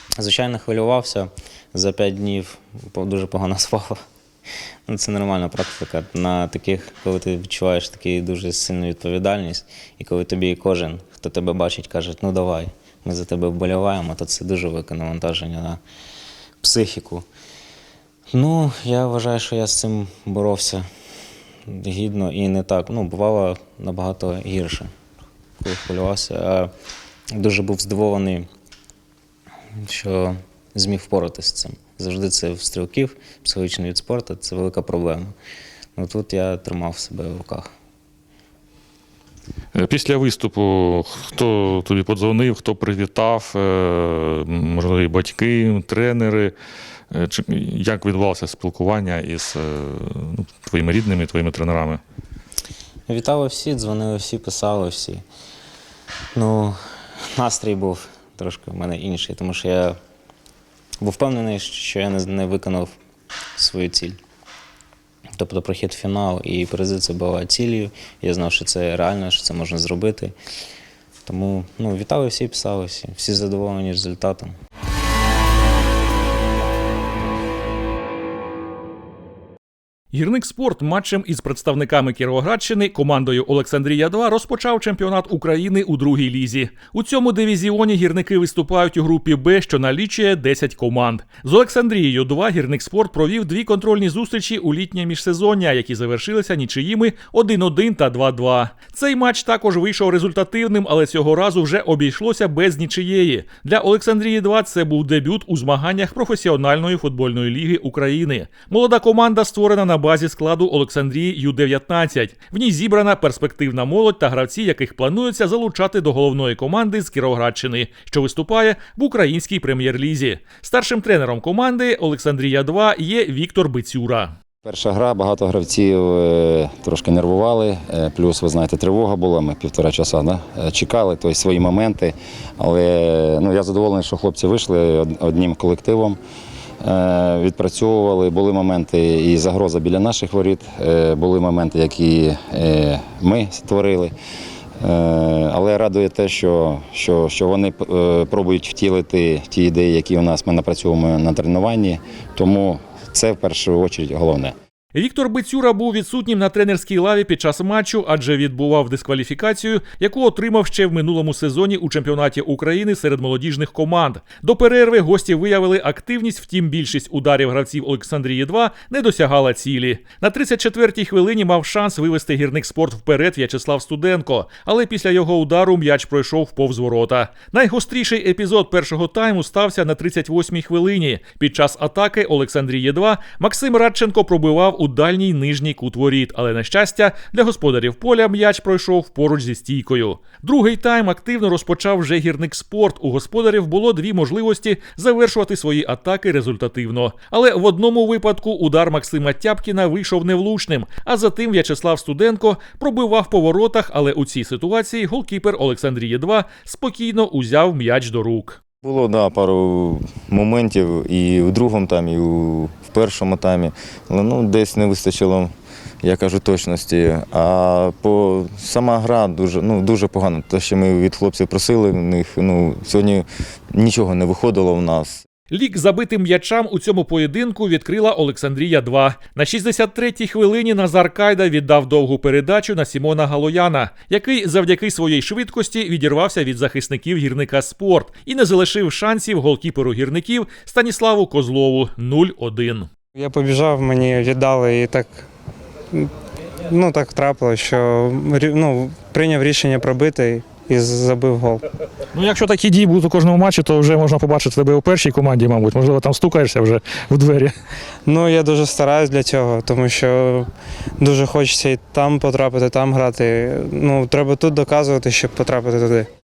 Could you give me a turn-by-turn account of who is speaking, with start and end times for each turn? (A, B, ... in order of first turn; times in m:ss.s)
0:00.2-0:04.0 A
0:04.9-0:15.8 A
0:16.6-0:17.3 A
0:18.3-0:20.8 A
0:21.7-0:24.9 A
0:25.6-0:26.7 A
0:27.3-0:28.5 A
0:29.8-0:35.3 A
0:36.0-0:37.7 A
0:39.8-0:46.5 B
0:47.1-0:52.0 B
0:53.1-0:55.2 A
0:56.3-1:00.0 A
1:01.0-1:03.0 A
1:03.6-1:04.2 A
1:05.4-1:10.4 A
1:11.2-1:14.6 A
1:20.1-2:04.3 C
2:04.6-2:16.2 D
2:16.8-2:24.1 D
2:24.8-2:34.6 D
2:34.9-3:28.6 C
3:28.8-3:35.5 E
3:36.0-3:45.2 E
3:45.5-4:02.9 C
4:03.2-4:05.2 F
4:06.7-4:11.6 F
4:12.2-4:17.5 G
4:18.1-4:20.5 F
4:21.0-4:26.1 F